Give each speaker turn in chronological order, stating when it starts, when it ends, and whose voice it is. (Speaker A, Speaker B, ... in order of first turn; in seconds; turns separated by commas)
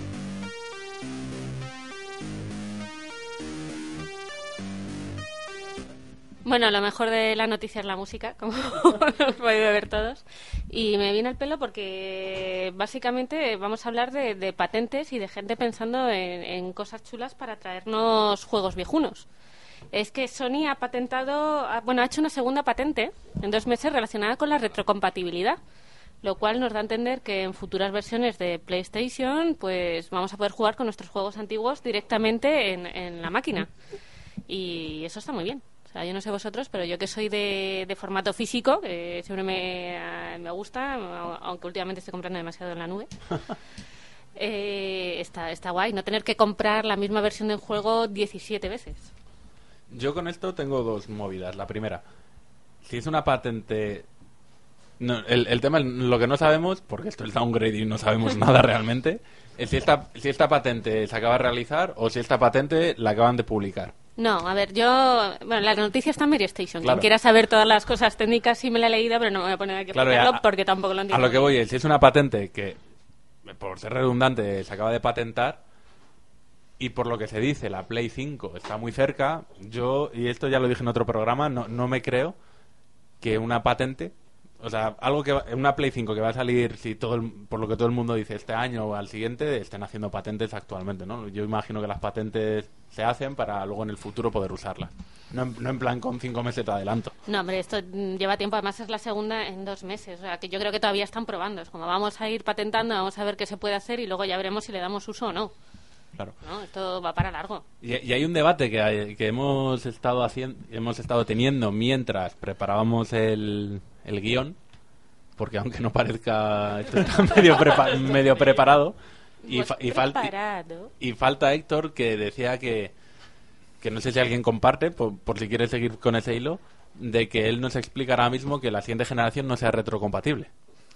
Speaker A: 6.5-19.3, Speaker A: 19.9-25.6, Speaker A: 26.2-33.7, Speaker A: 34.5-43.1, Speaker A: 44.4-49.1, Speaker B: 49.9-52.0, Speaker B: 52.8-54.1, Speaker B: 55.0-63.9, Speaker A: 64.2-71.5, Speaker B: 66.8-67.1, Speaker B: 69.9-70.4, Speaker B: 71.1-72.8, Speaker B: 73.5-75.6, Speaker B: 76.8-82.3, Speaker B: 83.2-97.1, Speaker A: 97.3-105.5, Speaker A: 106.4-107.7, Speaker B: 107.8-114.6, Speaker B: 115.4-120.3, Speaker A: 119.4-120.9, Speaker B: 121.0-122.9, Speaker B: 123.8-130.5